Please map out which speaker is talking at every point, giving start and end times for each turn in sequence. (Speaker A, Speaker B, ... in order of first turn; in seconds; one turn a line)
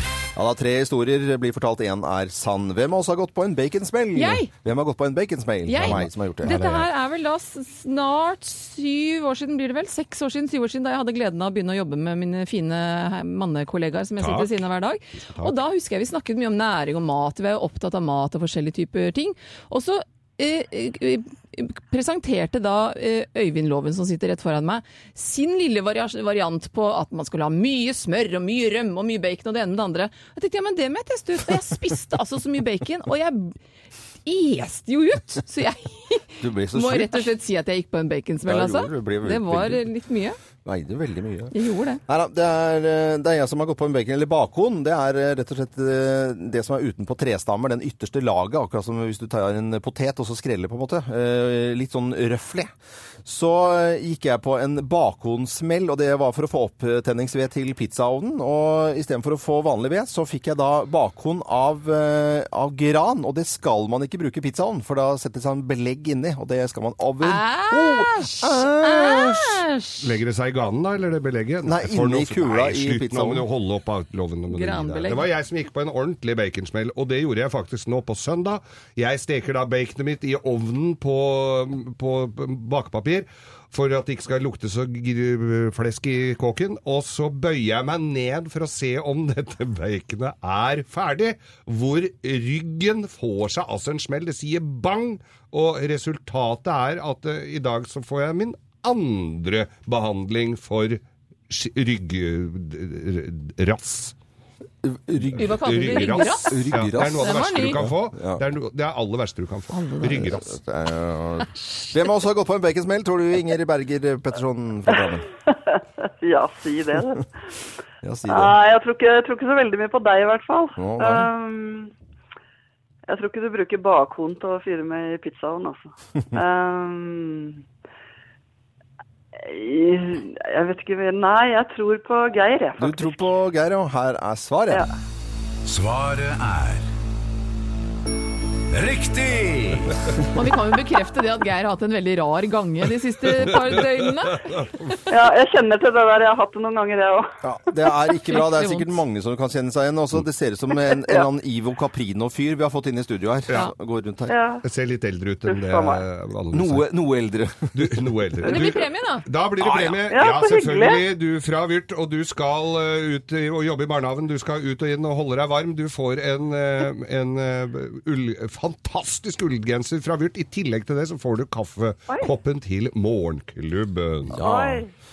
Speaker A: 0.4-6.9
Speaker B: 4.2-4.5
Speaker B: 5.7-33.6
Speaker C: 14.2-14.5
Speaker B: 34.3-40.4
Speaker A: 36.4-37.3
Speaker A: 38.5-39.9
Speaker A: 40.6-41.5
Speaker B: 41.5-42.0
Speaker A: 42.1-52.7
Speaker A: 53.2-69.6
Speaker B: 67.2-70.0
Speaker C: 70.0-104.1
Speaker A: 71.7-73.5
Speaker B: 74.5-75.3
Speaker A: 104.8-108.4
Speaker C: 105.3-110.5
Speaker B: 105.4-107.8
Speaker B: 109.7-110.4
Speaker A: 110.3-115.2
Speaker D: 115.5-117.3
Speaker A: 118.0-118.6
Speaker D: 118.3-121.9
Speaker A: 120.8-121.3
Speaker D: 123.1-127.6
Speaker D: 129.4-133.2
Speaker A: 132.8-134.9
Speaker E: 135.7-136.9
Speaker E: 138.7-140.0
Speaker B: 140.3-144.5
Speaker C: 143.4-145.0
Speaker D: 145.1-147.3
Speaker A: 147.4-154.3
Speaker B: 148.3-148.9
Speaker D: 150.9-151.3
Speaker D: 154.3-154.6
Speaker C: 154.6-156.8
Speaker D: 155.5-156.0
Speaker A: 156.5-158.0
Speaker C: 157.7-174.4
Speaker B: 158.4-159.3
Speaker D: 159.8-161.1
Speaker A: 174.3-174.8
Speaker D: 174.4-174.9